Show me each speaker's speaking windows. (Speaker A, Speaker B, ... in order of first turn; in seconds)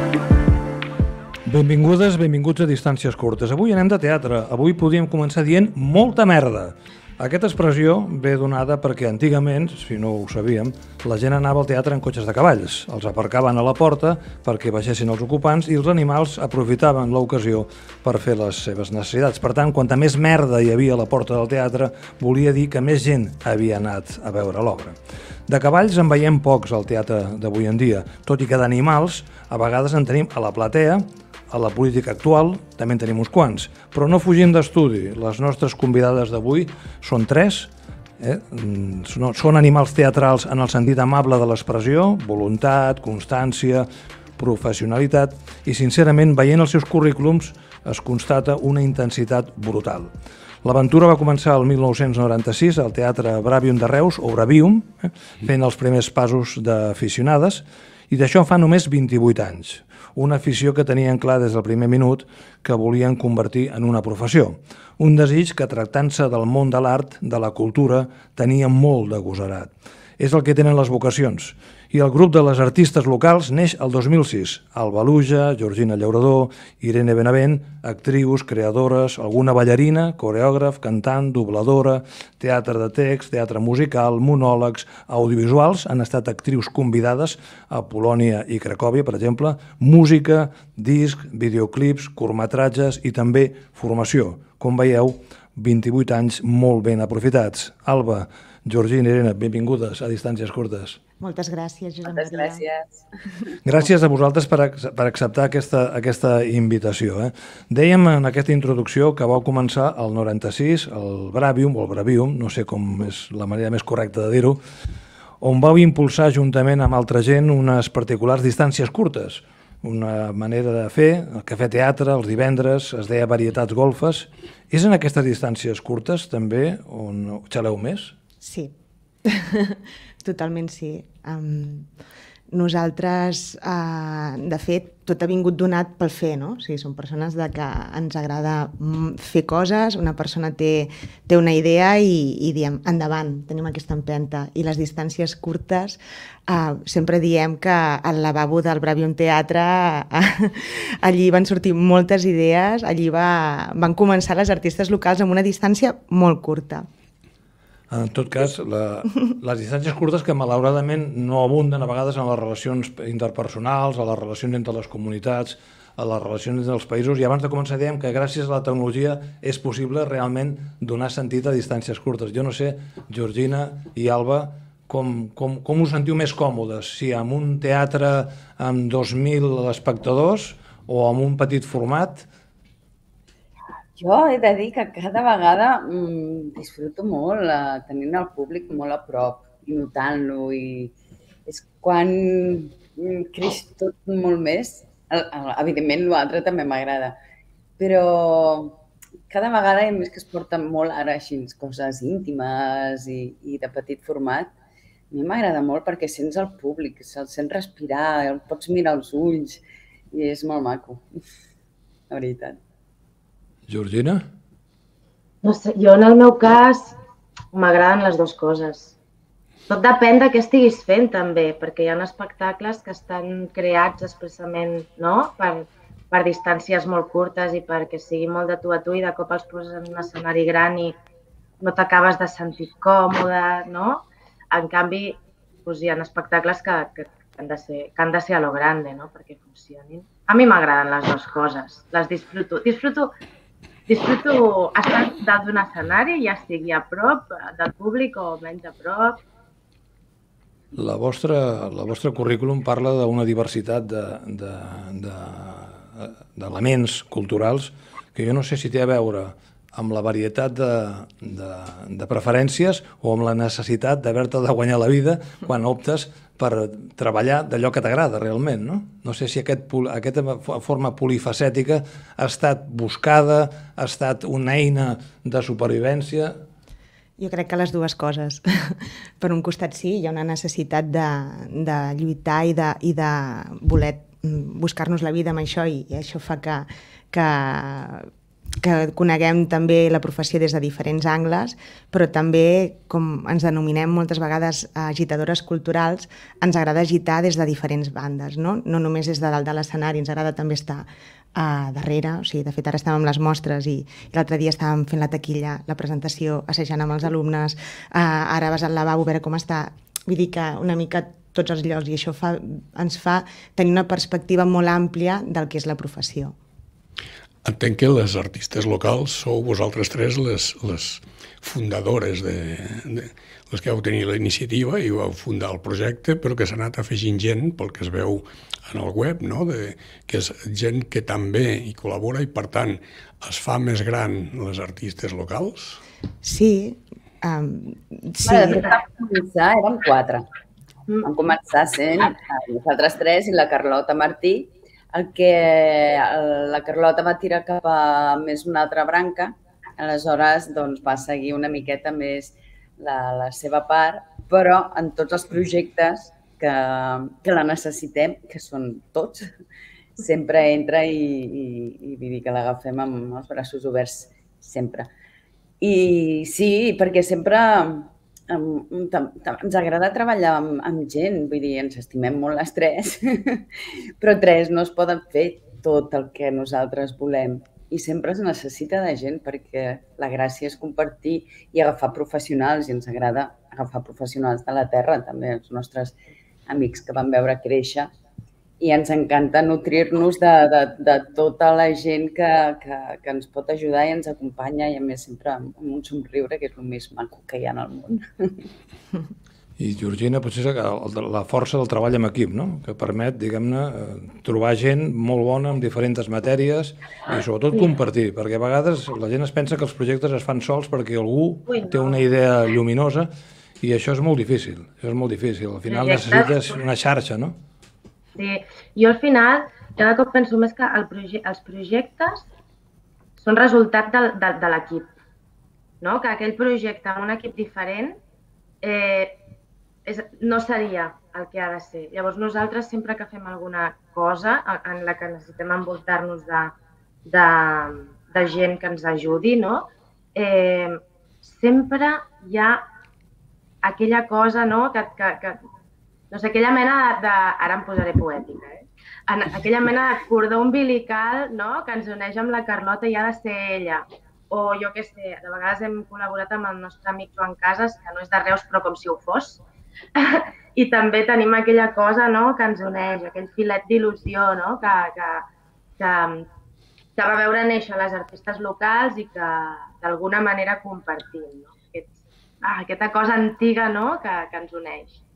Speaker A: 1.5-25.0, 25.5-50.1, 50.6-101.0, 103.6-114.6, 115.4-128.1, 157.9-182.3, 213.7-214.2, 250.8-276.4, 399.6-413.1, 413.6-417.4
Speaker B: 101.2-102.6, 128.4-128.7, 129.2-131.9, 132.5-156.9, 277.2-316.4, 336.2-338.7
Speaker C: 102.1-103.0, 184.0-190.9, 191.5-197.2, 197.8-198.8, 199.3-204.5, 205.1-209.6, 210.1-211.1, 212.1-212.6, 338.2-340.3, 341.0-359.3, 360.0-364.9, 365.6-373.5, 374.0-387.9, 388.6-398.5
Speaker D: 215.4-217.0, 217.5-218.9, 219.7-231.0, 231.6-243.1, 243.9-249.2, 411.5-412.0, 415.7-416.3, 418.2-422.3, 423.2-424.9, 425.8-428.0, 428.6-429.2, 429.9-436.6, 437.1-442.6, 443.6-445.4, 446.1-459.4, 460.0-465.3, 465.8-466.3, 467.0-471.9, 472.4-475.0
Speaker E: 317.4-335.8